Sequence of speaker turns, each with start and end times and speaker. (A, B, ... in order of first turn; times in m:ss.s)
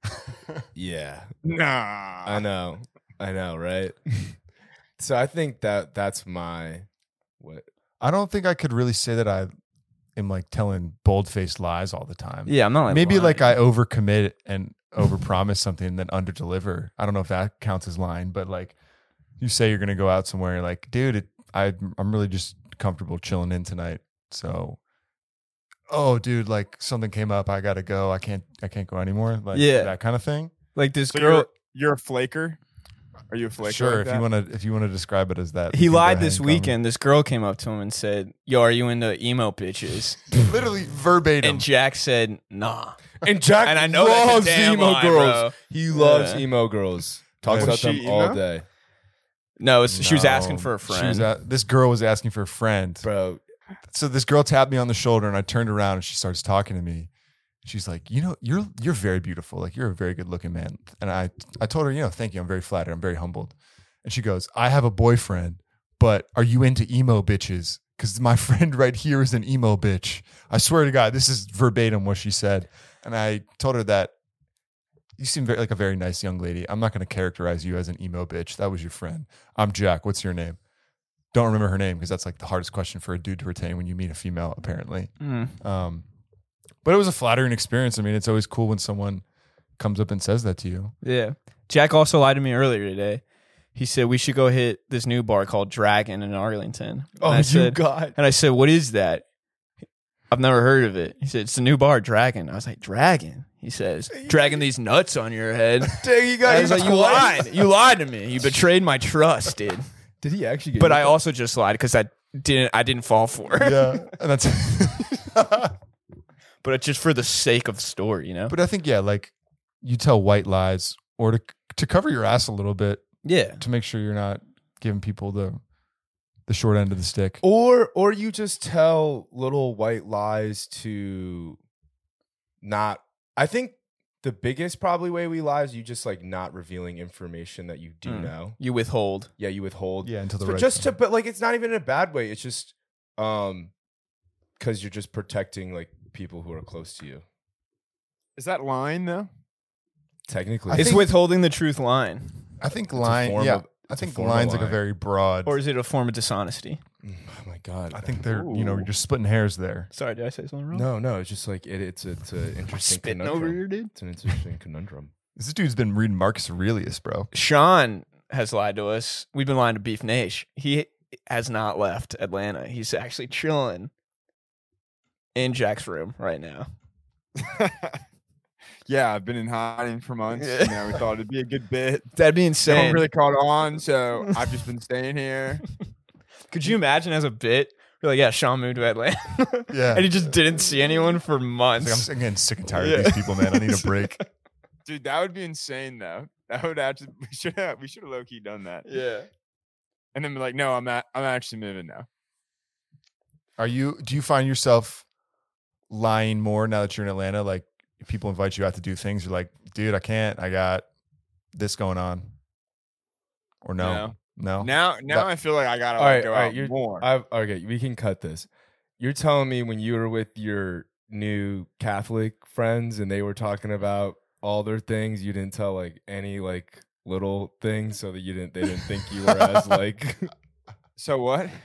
0:00.7-0:01.3 A
0:01.4-0:02.4 B
0:02.2-0:04.4 A
0:05.0-0:06.9 A
0:07.4-0:07.6 A
0:08.0-0:09.5 C
0:10.1-0:18.7 C
0:12.5-0:13.6 D
0:19.4-0:24.8 C
0:25.9-0:30.5 C
0:29.5-0:29.9 D
0:30.7-0:31.5 D
0:31.1-0:32.6 B
0:33.3-0:34.2 B
0:33.6-0:36.8 C
0:35.7-0:40.2 D
0:40.4-0:41.7 C
0:41.4-0:43.0 D
0:43.2-0:48.6 A
0:43.6-0:46.4 D
0:47.4-0:47.8 C
0:47.5-0:48.4 B
0:49.6-0:51.3 D
0:49.9-0:53.1 C
0:53.0-0:53.4 A
0:53.9-0:57.1 C
0:57.6-1:14.1 C
1:15.2-1:20.6 C
1:21.3-1:26.0 C
1:25.2-1:25.6 D
1:26.8-1:29.2 C
1:29.8-1:30.9 C
1:31.0-1:33.2 D
1:33.7-1:39.2 D
1:37.2-1:38.2 A
1:40.3-1:49.9 D
1:44.1-1:44.6 A
1:45.9-1:47.7 A
1:50.2-1:51.2 A
1:50.8-1:54.1 D
1:53.6-1:55.7 C
1:56.6-1:58.6 D
1:58.5-2:03.1 C
2:03.2-2:03.6 D
2:03.6-2:05.6 C
2:06.5-2:07.4 C
2:07.4-2:11.6 A
2:12.6-2:18.6 A
2:18.0-2:19.3 D
2:19.4-2:23.7 A
2:20.0-2:20.9 C
2:24.6-2:27.2 A
2:28.4-2:29.3 B
2:30.3-2:31.0 A
2:30.7-2:31.1 C
2:30.7-2:32.5 D
2:32.6-2:35.6 C
2:32.9-2:34.8 A
2:35.4-2:36.8 D
2:37.0-2:38.2 A
2:37.9-2:39.9 C
2:38.2-2:38.9 B
2:39.9-2:40.9 D
2:40.7-2:45.1 A
2:42.7-2:43.9 D
2:45.4-2:47.3 C
2:47.3-2:53.9 D
2:55.3-2:56.7 D
2:57.4-2:58.0 B
2:58.9-3:02.1 B
3:00.4-3:01.0 D
3:02.1-3:03.0 D
3:02.7-3:05.6 B
3:06.5-3:12.1 D
3:09.7-3:10.3 C
3:11.8-3:14.2 C
3:12.7-3:14.2 D
3:14.8-3:18.9 B
3:18.8-3:19.3 D
3:20.1-3:22.0 B
3:23.6-3:25.0 C
3:25.9-3:30.8 C
3:31.5-3:32.3 C
3:33.6-3:35.3 C
3:33.8-3:37.0 B
3:36.0-3:38.5 A
3:39.0-3:50.3 A
3:51.0-3:51.5 B